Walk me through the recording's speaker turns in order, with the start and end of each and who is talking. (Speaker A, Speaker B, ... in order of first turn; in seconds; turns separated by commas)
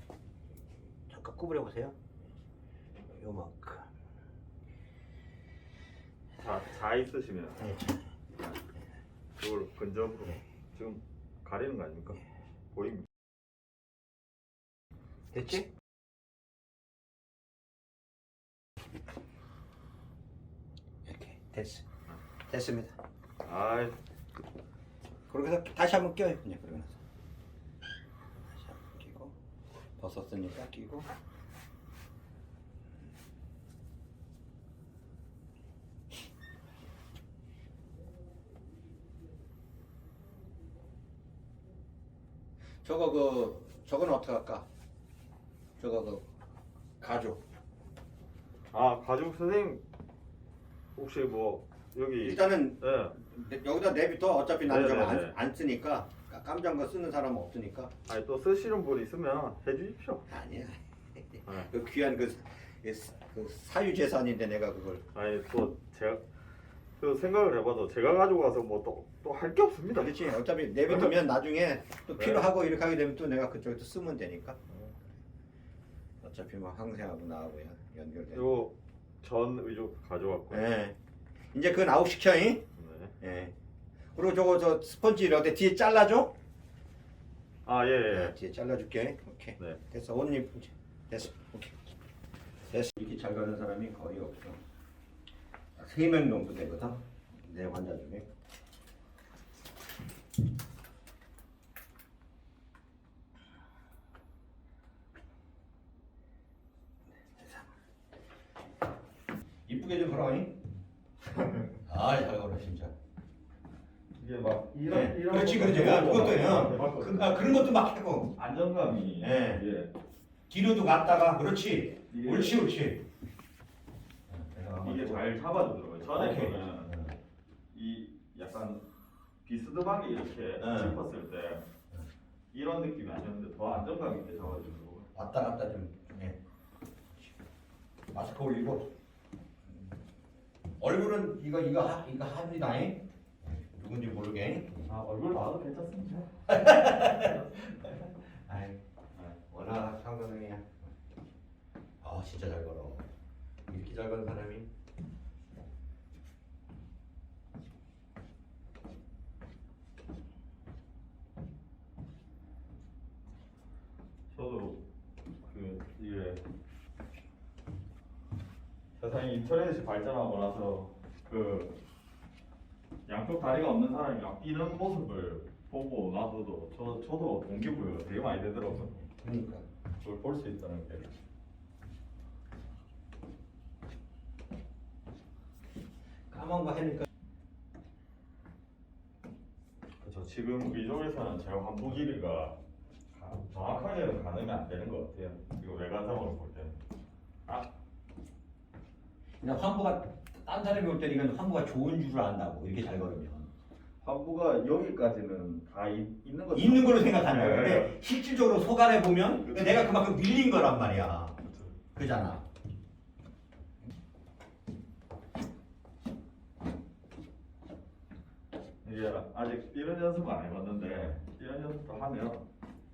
Speaker A: 1.1-1.9, Speaker A: 3.1-3.9, Speaker B: 6.4-7.6, Speaker A: 7.6-8.0, Speaker B: 9.4-13.1, Speaker A: 15.3-15.7, Speaker A: 21.1-21.8, Speaker A: 22.5-22.9, Speaker B: 23.4-23.9, Speaker A: 25.3-27.0, Speaker A: 28.5-29.3, Speaker A: 30.0-31.1, Speaker A: 42.8-44.6, Speaker A: 45.8-46.2, Speaker A: 47.0-47.4, Speaker B: 48.7-49.8, Speaker B: 51.0-53.2, Speaker A: 52.2-57.9, Speaker B: 54.6-55.4, Speaker B: 58.1-60.3, Speaker A: 60.3-65.0, Speaker B: 65.1-66.2, Speaker B: 67.0-70.2, Speaker A: 69.9-74.6, Speaker B: 70.9-71.2, Speaker B: 72.2-72.5, Speaker A: 76.2-78.6, Speaker B: 78.3-80.7, Speaker A: 80.5-80.9, Speaker A: 81.5-82.6, Speaker B: 82.8-83.1, Speaker A: 83.2-83.5, Speaker A: 84.1-86.3, Speaker B: 87.6-88.3, Speaker A: 88.1-91.8, Speaker A: 92.7-94.6, Speaker A: 95.8-98.3, Speaker A: 109.7-110.5, Speaker A: 111.8-112.9, Speaker B: 114.2-117.5, Speaker A: 114.9-118.3, Speaker B: 118.3-119.9, Speaker A: 119.2-119.6, Speaker A: 120.5-123.0, Speaker B: 122.1-122.6, Speaker A: 124.3-125.3, Speaker B: 124.8-126.9, Speaker A: 126.1-127.1, Speaker B: 127.7-128.8, Speaker B: 129.4-131.6, Speaker A: 130.6-131.0, Speaker B: 132.5-135.1, Speaker A: 135.1-136.4, Speaker A: 138.1-138.9, Speaker A: 140.8-144.9, Speaker B: 144.8-147.8, Speaker A: 146.5-148.8, Speaker A: 149.4-150.8, Speaker A: 152.0-153.1, Speaker A: 153.7-154.7, Speaker B: 164.3-164.8, Speaker B: 165.4-166.4, Speaker B: 169.0-171.8, Speaker B: 173.1-179.0, Speaker A: 179.1-179.6, Speaker B: 180.0-181.1, Speaker A: 186.3-187.1, Speaker B: 190.0-192.6, Speaker B: 193.1-196.8, Speaker A: 199.4-203.5, Speaker B: 204.0-208.0, Speaker A: 206.5-211.4, Speaker B: 209.4-210.0, Speaker B: 211.4-211.8, Speaker A: 211.9-212.4, Speaker B: 218.8-222.4